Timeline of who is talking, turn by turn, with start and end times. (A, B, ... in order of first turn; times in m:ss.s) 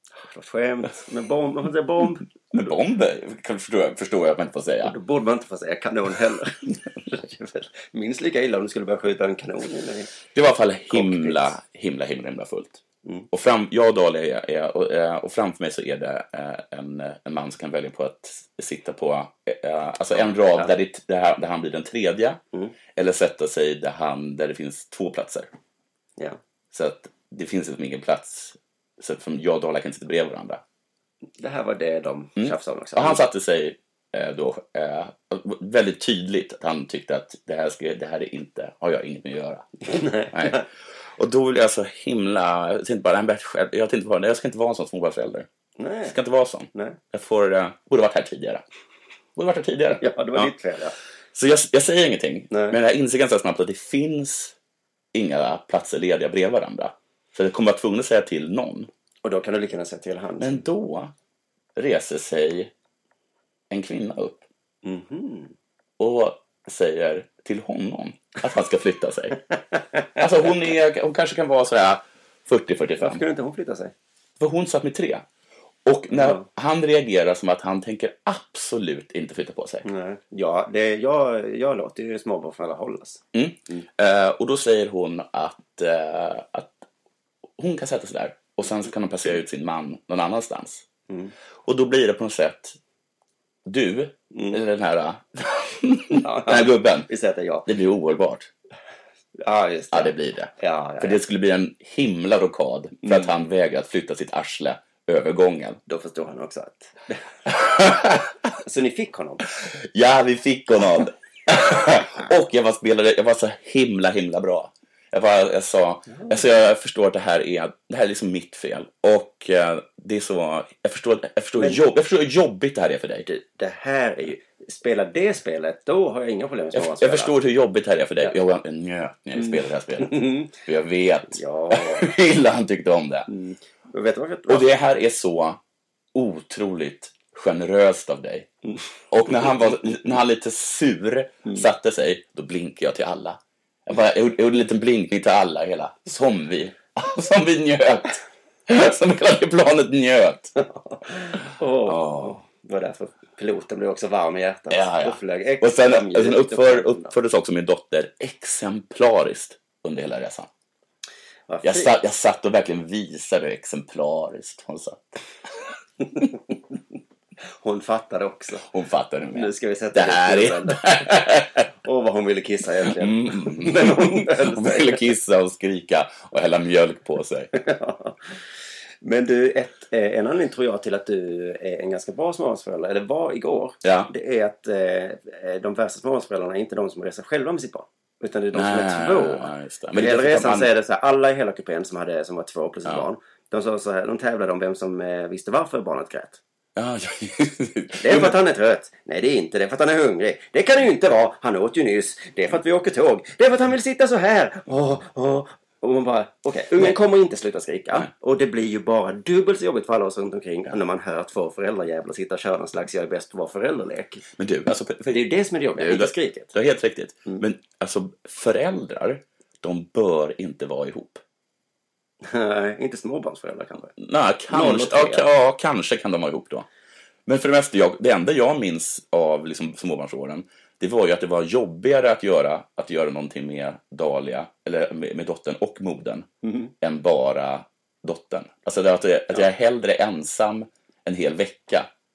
0:00.2-0:02.2 A
0:02.5-0:04.9 B
0:04.8-0:10.1 A
0:10.3-0:12.8 B
0:10.9-0:11.5 A
0:13.3-0:22.4 B
0:20.2-0:20.7 A
0:22.9-0:25.5 B
0:26.7-0:30.6 B
0:31.4-0:33.2 A
0:32.4-0:40.6 B
0:39.8-0:40.6 A
0:41.2-0:45.5 B
0:45.8-0:46.1 A
0:46.0-0:48.6 B
0:46.7-0:47.0 A
0:49.4-0:50.5 B
0:50.0-0:51.0 A
0:51.3-0:54.5 B
0:52.5-0:52.8 A
0:55.1-0:58.9 B
0:59.2-1:00.6 A
1:00.4-1:01.1 B
1:01.8-1:02.7 B
1:03.7-1:04.4 B
1:04.8-1:05.5 A
1:06.0-1:09.4 B
1:10.2-1:13.2 B
1:13.0-1:13.9 A
1:14.4-1:15.2 B
1:15.8-1:19.8 B
1:16.2-1:16.4 A
1:19.8-1:23.8 A
1:23.3-1:26.8 B
1:27.6-1:30.8 B
1:31.6-1:32.8 B
1:33.6-1:37.1 B
1:34.3-1:34.6 A
1:36.1-1:37.7 A
1:37.6-1:38.5 B
1:39.4-1:41.2 A
1:39.9-1:45.8 B
1:45.9-1:47.2 A
1:47.5-1:48.2 B
1:48.6-1:49.4 A
1:49.9-2:03.2 B
2:03.2-2:07.3 A
2:06.7-2:13.3 B
2:09.4-2:10.5 A
2:11.3-2:12.1 A
2:13.3-2:14.7 A
2:14.5-2:15.6 B
2:16.1-2:18.5 B
2:19.1-2:30.5 B
2:30.6-2:37.1 A
2:31.9-2:32.4 B
2:34.7-2:40.5 B
2:41.5-2:41.9 A
2:41.6-2:45.2 B
2:47.6-2:48.6 A
2:48.7-2:51.6 B
2:49.3-2:51.3 A
2:51.8-2:55.0 A
2:53.0-2:57.5 B
2:57.5-2:58.2 A
2:59.0-3:16.4 A
3:03.8-3:04.1 B
3:08.5-3:10.7 B
3:16.8-3:18.4 B
3:18.0-3:34.2 A
3:34.4-3:41.2 B
3:35.1-3:36.5 A
3:42.2-3:43.9 A
3:44.0-3:46.6 B
3:44.5-3:45.2 A
3:47.2-3:56.3 B
3:56.4-3:56.7 A
3:56.8-4:01.9 B